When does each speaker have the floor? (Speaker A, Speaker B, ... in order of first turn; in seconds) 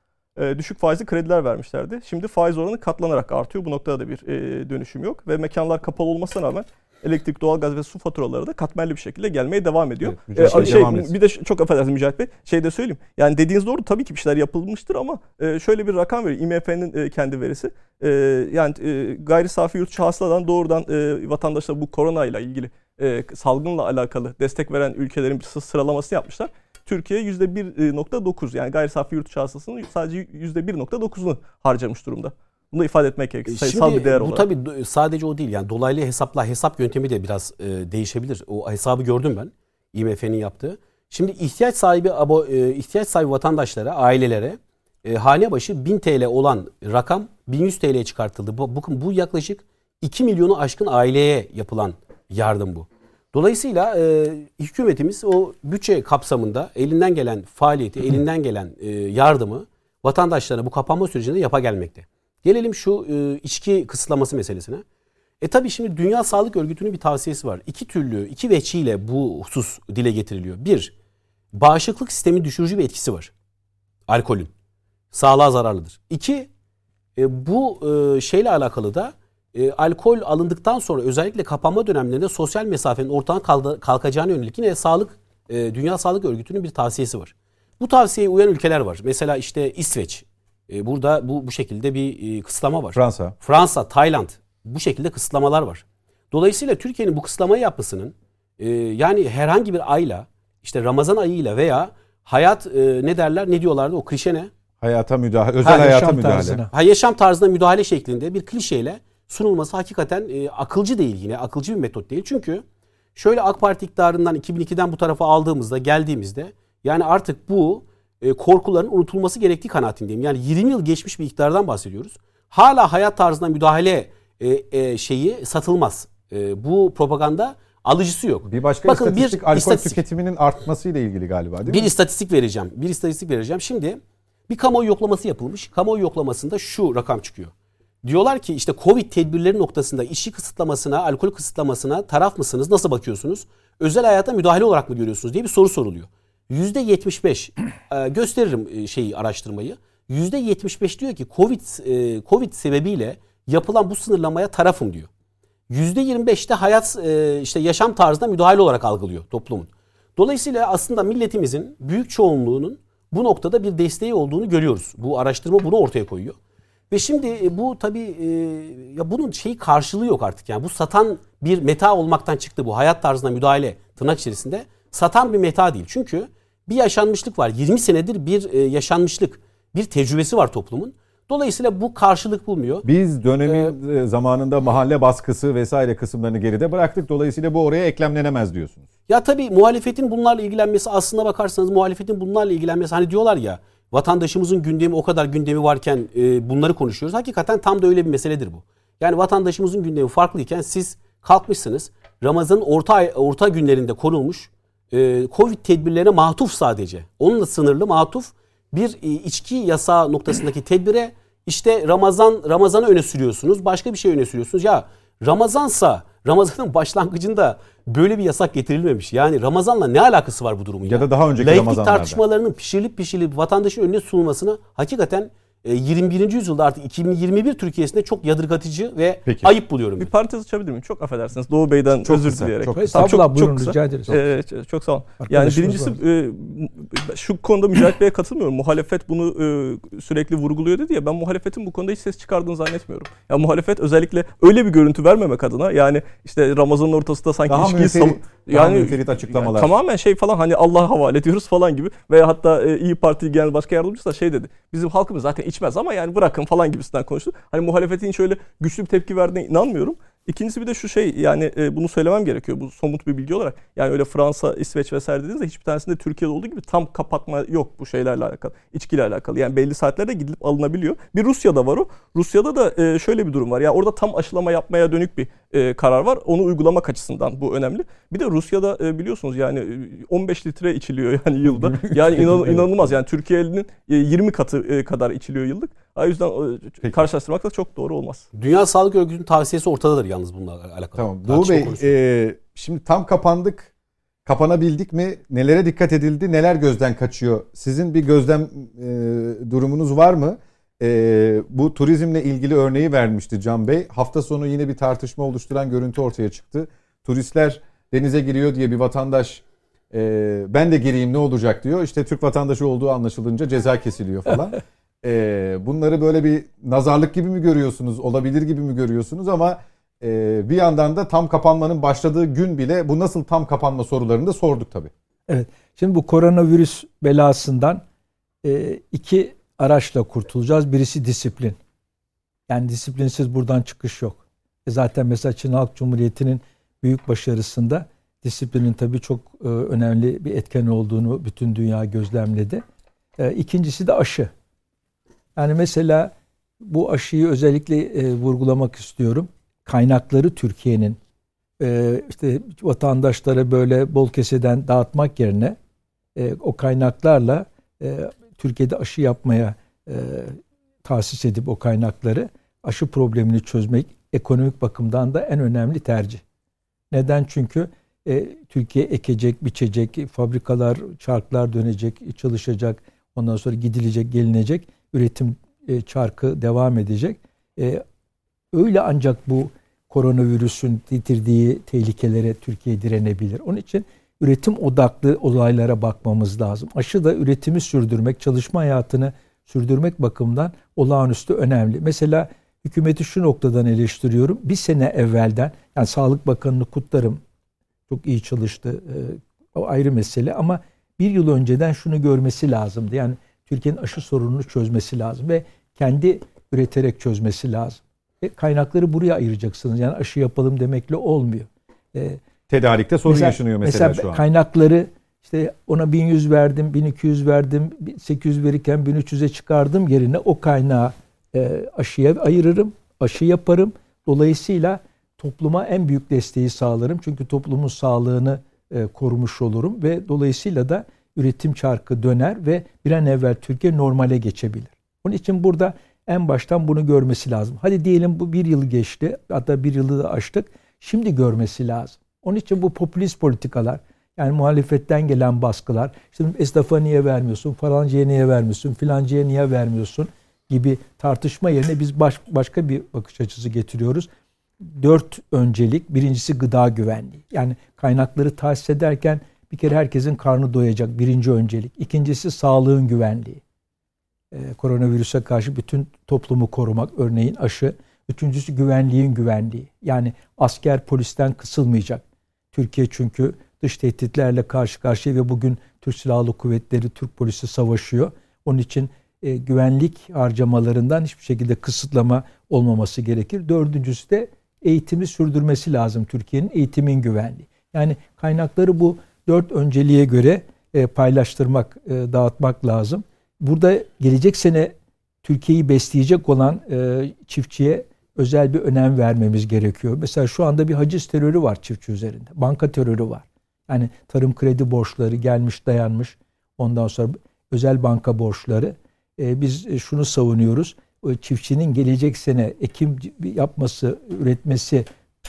Speaker A: 0.4-34.5, 230.0-288.3
Speaker B: 10.0-11.1, 92.9-93.3, 104.8-106.6, 128.5-131.9, 182.8-188.8, 220.8-222.2, 229.3-229.5, 232.0-233.1, 247.5-249.7, 281.5-282.7, 291.0-293.7, 294.3-324.9, 412.5-414.2
Speaker C: 33.5-64.8, 65.4-70.9, 71.5-73.3, 74.1-74.5, 75.1-76.5, 77.2-104.5, 106.7-112.6, 113.2-130.0, 131.7-137.5, 138.0-155.1, 155.7-166.4, 166.9-182.9, 183.5-183.7, 189.1-230.1, 288.3-291.9
Speaker D: 105.6-106.7, 232.7-234.2, 235.2-236.0, 325.3-327.8, 328.4-331.6, 332.5-342.6, 343.2-344.3, 345.4-351.0, 351.6-355.6, 356.2-366.2, 366.9-377.8, 378.5-397.2, 397.9-412.2, 413.1-454.1, 454.6-463.4, 464.3-514.9